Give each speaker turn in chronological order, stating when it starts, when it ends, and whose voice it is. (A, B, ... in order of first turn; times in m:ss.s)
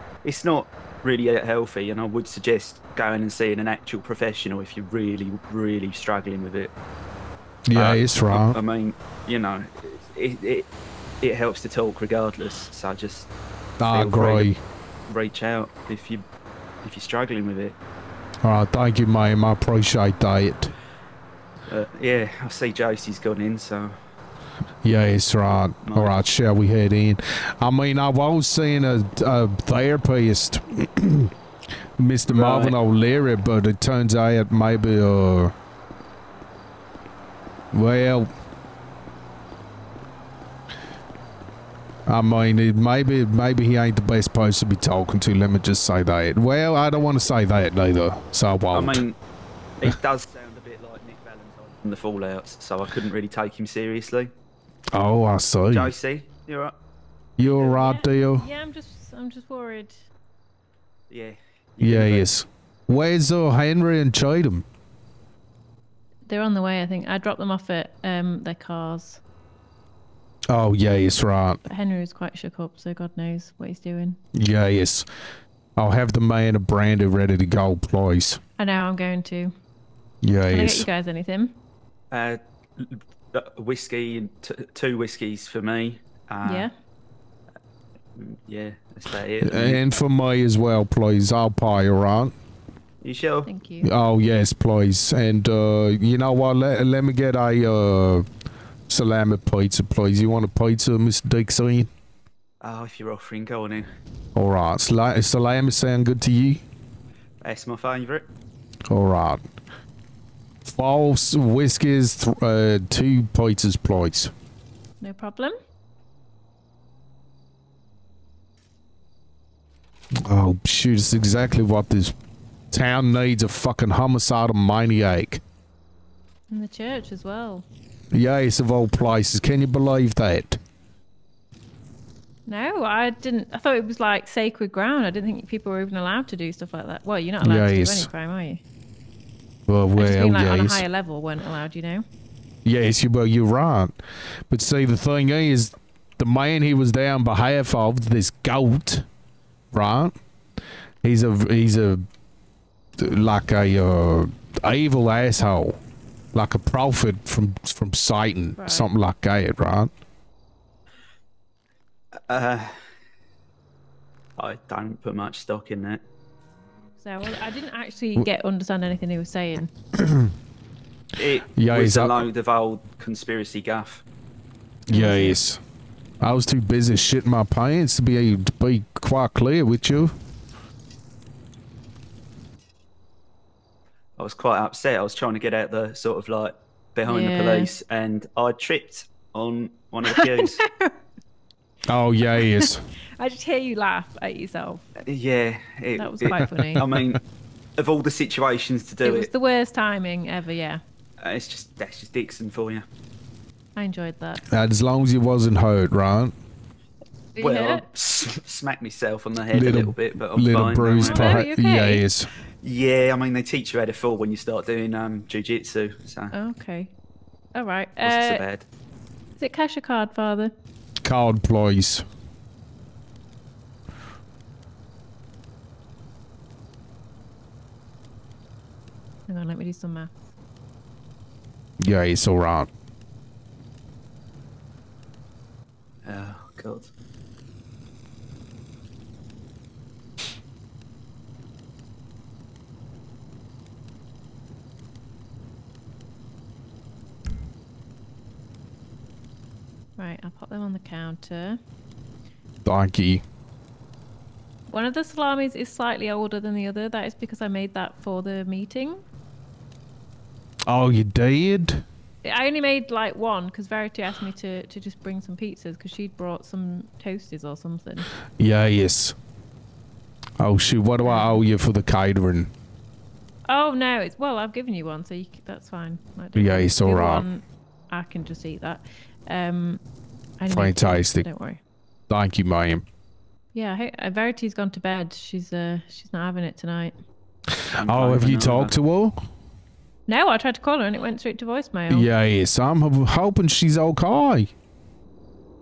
0:00.2-0:06.7 A
0:07.7-0:08.6 B
0:07.7-0:10.7 A
0:11.2-0:13.3 A
0:13.8-0:14.6 B
0:13.9-0:14.5 A
0:15.1-0:16.2 A
0:16.8-0:17.8 A
0:18.4-0:20.7 B
0:21.7-0:24.0 A
0:24.8-0:31.3 B
0:25.8-0:26.2 A
0:32.0-0:35.5 B
0:32.3-0:32.7 A
0:37.7-0:38.3 B
0:42.1-0:49.0 B
0:48.7-0:49.2 A
0:49.8-0:54.3 A
0:54.9-0:55.9 B
0:55.7-0:56.7 A
0:57.4-0:58.5 B
0:57.4-1:00.0 C
1:01.1-1:02.3 A
1:01.8-1:04.6 B
1:06.3-1:09.2 C
1:10.5-1:11.6 B
1:11.6-1:14.2 C
1:14.3-1:15.1 B
1:15.8-1:18.4 B
1:18.6-1:19.5 C
1:20.2-1:20.9 B
1:20.5-1:21.6 C
1:22.1-1:26.7 A
1:26.4-1:26.7 C
1:28.2-1:29.8 A
1:29.4-1:32.3 B
1:33.0-1:33.5 A
1:33.4-1:33.9 C
1:33.8-1:38.2 B
1:38.9-1:41.9 B
1:42.6-1:43.9 A
1:44.3-1:46.6 B
1:47.4-1:48.3 A
1:48.9-1:49.4 B
1:50.6-1:54.3 B
1:55.0-1:55.5 C
2:00.2-2:02.1 B
2:02.7-2:05.4 B
2:06.5-2:07.7 C
2:08.1-2:10.6 B
2:12.5-2:18.6 C
2:17.4-2:18.1 B
2:19.7-2:20.8 B
2:20.0-2:22.0 C
2:22.6-2:24.0 B
2:24.5-2:29.0 B
2:29.7-2:30.1 B
2:31.0-2:32.0 B
2:33.0-2:35.8 B
2:36.3-2:39.9 B
2:38.6-2:38.9 C
2:42.3-2:42.8 A
2:44.4-2:46.0 A
2:47.0-2:49.7 C
2:50.0-2:50.3 B
2:51.2-2:54.0 A
2:51.6-2:52.2 B
2:54.9-2:55.6 B
2:54.9-2:55.4 C
2:56.2-3:00.2 B
3:04.2-3:10.6 A
3:07.0-3:07.7 C
3:10.1-3:10.9 C
3:11.9-3:12.8 B
3:12.4-3:14.9 C
3:15.0-3:17.2 A
3:16.0-3:16.9 C
3:16.3-3:17.2 B
3:17.8-3:19.3 A
3:19.0-3:20.8 C
3:21.2-3:22.8 A
3:23.8-3:24.4 C
3:24.5-3:26.3 B
3:27.4-3:27.8 C
3:27.4-3:31.5 A
3:29.5-3:32.3 B
3:31.0-3:32.0 C
3:32.6-3:36.3 A
3:36.3-3:36.9 C
3:37.6-3:38.4 C
3:38.0-3:38.6 A
3:39.4-3:40.5 C
3:41.0-3:42.0 B
3:49.3-3:50.2 C
3:51.8-3:52.7 B
3:56.0-3:56.9 A
4:10.0-4:11.6 C
4:12.6-4:13.2 B
4:14.7-4:19.0 C
4:20.7-4:21.8 B
4:22.2-4:28.1 C
4:28.4-4:29.2 B
4:30.4-4:32.5 B
4:31.0-4:31.4 C
4:33.5-4:39.8 C
4:36.3-4:37.2 B
4:40.4-4:41.6 C
4:40.5-4:41.2 B
4:42.1-4:42.8 B
4:43.5-4:46.9 C
4:47.8-4:48.8 A
4:47.8-4:49.2 B
4:50.1-4:52.1 C
4:51.9-4:54.5 B